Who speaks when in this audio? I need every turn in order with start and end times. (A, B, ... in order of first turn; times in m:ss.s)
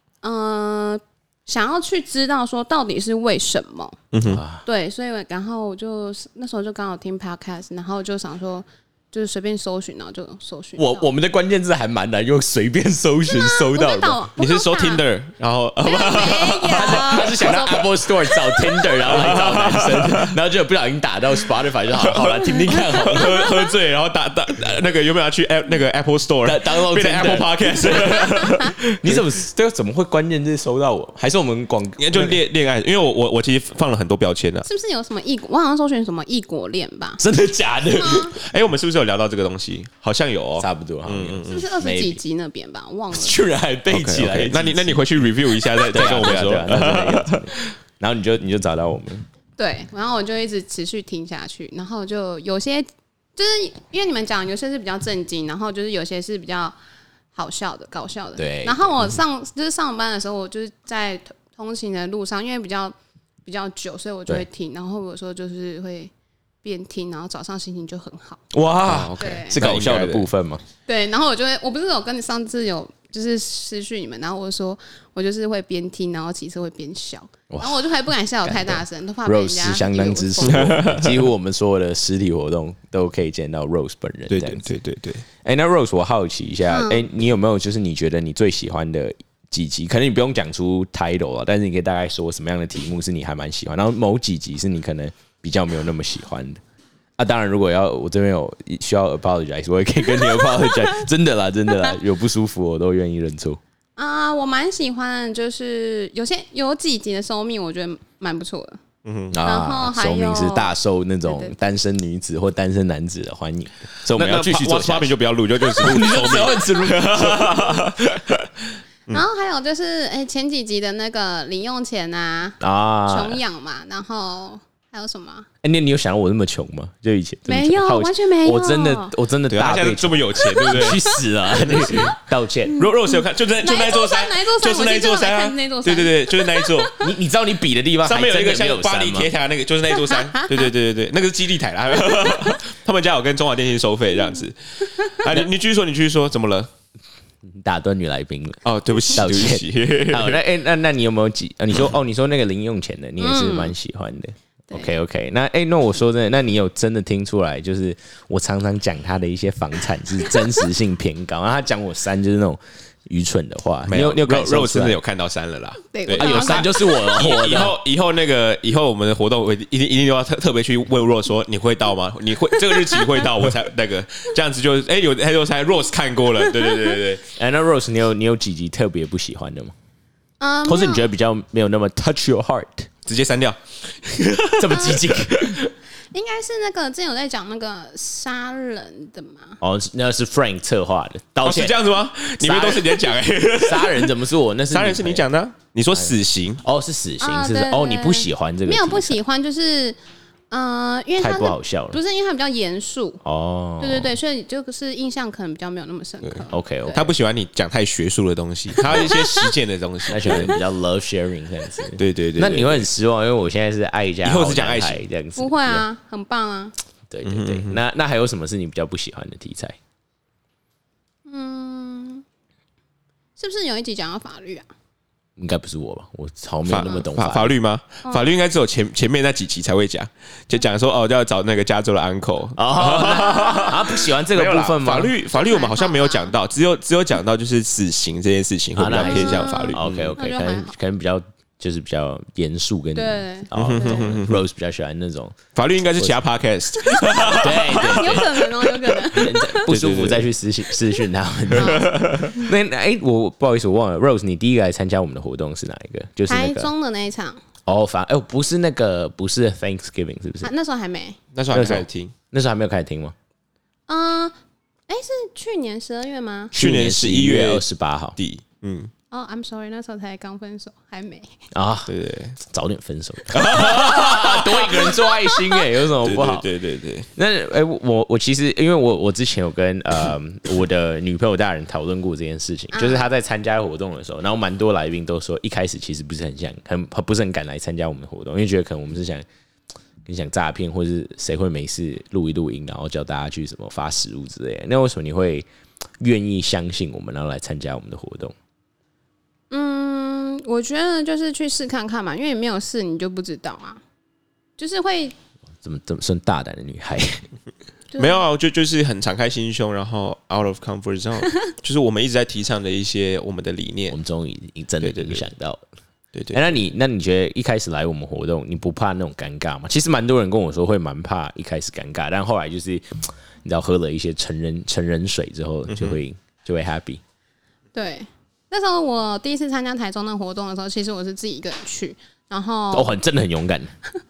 0:00.2-0:04.0 A
0:04.1-0:04.4 B
0:04.3-0:04.6 C
0:04.6-0:11.1 A
0:10.8-0:14.2 C
0:13.3-0:15.0 A
0:14.4-0:17.5 B
0:15.8-0:18.9 A
0:16.7-0:23.4 C
0:19.0-0:20.4 B
0:22.0-0:29.2 B
0:26.5-0:28.1 C
0:28.0-0:28.7 A
0:29.0-0:32.4 C
0:32.0-0:34.7 B
0:34.7-0:37.2 A
0:37.2-0:38.4 C
0:38.0-0:38.4 A
0:38.4-0:41.6 B
0:40.6-0:42.2 C
0:41.5-0:43.4 A
0:43.1-0:49.3 C
0:43.9-0:47.6 B
0:49.6-0:56.8 A
0:57.3-1:06.1 A
0:58.4-0:58.9 C
1:06.6-1:08.4 A
1:08.5-1:10.6 C
1:08.9-1:10.3 B
1:09.2-1:09.6 A
1:10.9-1:20.8 A
1:17.5-1:17.8 C
1:18.4-1:24.6 C
1:20.5-1:21.2 B
1:24.3-1:25.2 B
1:25.4-1:36.6 C
1:26.7-1:27.0 A
1:37.2-1:43.6 C
1:40.0-1:41.1 A
1:41.7-1:42.0 A
1:44.0-1:48.8 A
1:49.0-1:49.4 B
1:49.3-1:57.9 C
1:49.4-1:51.6 A
1:54.1-1:59.2 B
1:59.1-2:05.5 A
2:02.6-2:03.4 C
2:05.6-2:12.8 C
2:07.5-2:09.1 A
2:09.5-2:12.1 B
2:12.7-2:17.1 A
2:12.8-2:17.0 B
2:17.0-2:19.3 C
2:18.0-2:26.7 B
2:20.0-2:20.7 A
2:22.3-2:22.6 A
2:25.0-2:25.3 A
2:27.4-2:28.6 C
2:28.6-2:30.4 B
2:29.1-2:45.0 C
2:33.2-2:33.8 A
2:34.7-2:35.0 A
2:43.9-2:57.2 B
2:45.9-2:47.3 A
2:46.2-2:47.8 C
2:57.2-2:59.7 C
3:00.4-3:01.1 A
3:00.6-3:02.9 C
3:03.0-3:05.6 B
3:04.6-3:05.8 C
3:04.7-3:05.2 A
3:06.1-3:09.6 A
3:09.6-3:11.8 C
3:11.4-3:14.1 B
3:12.4-3:15.2 C
3:14.7-3:16.6 B
3:15.9-3:19.2 C
3:17.2-3:20.0 A
3:20.5-3:23.2 A
3:21.2-3:22.0 C
3:23.2-3:24.1 C
3:23.8-3:27.1 A
3:26.2-3:30.6 B
3:26.5-3:27.1 C
3:28.8-3:29.5 A
3:30.1-3:35.8 C
3:30.3-3:30.6 A
3:32.0-3:32.9 B
3:34.2-3:35.0 B
3:35.4-3:36.8 A
3:37.1-3:39.8 C
3:37.2-3:37.8 B
3:41.3-3:42.2 A
3:43.4-3:44.7 A
3:45.4-3:47.5 C
3:46.6-4:00.1 B
3:52.6-3:55.1 C
3:55.3-3:56.3 A
3:58.8-4:05.4 C
3:58.9-4:00.8 A
4:03.0-4:04.2 A
4:03.5-4:04.4 B
4:05.6-4:08.5 B
4:06.8-4:09.8 A
4:07.1-4:08.5 C
4:09.1-4:16.7 C
4:09.6-4:10.3 B
4:11.5-4:12.4 B
4:11.6-4:12.5 A
4:16.3-4:17.4 A
4:17.7-4:20.5 C
4:20.4-4:21.2 A
4:21.3-4:22.1 B
4:21.5-4:23.2 C
4:23.9-4:24.4 A
4:24.9-4:26.5 A
4:26.5-4:28.2 C
4:26.6-4:27.6 B
4:28.2-4:28.9 B
4:29.1-4:31.4 A
4:31.5-4:36.5 C
4:31.9-4:32.4 B
4:33.3-4:34.9 B
4:34.7-4:35.6 A
4:36.0-4:37.1 B
4:37.2-4:49.2 C
4:42.7-4:43.1 A
4:50.0-4:55.5 C
4:56.0-4:58.4 C
4:59.5-5:03.8 A
5:04.6-5:05.2 A
5:05.6-5:07.2 C
5:07.9-5:08.2 A
5:08.0-5:14.0 B
5:13.9-5:15.6 C
5:14.8-5:15.2 B
5:16.1-5:16.6 B
5:16.3-5:27.0 C
5:25.7-5:26.0 B
5:27.7-5:33.0 A
5:32.7-5:33.7 C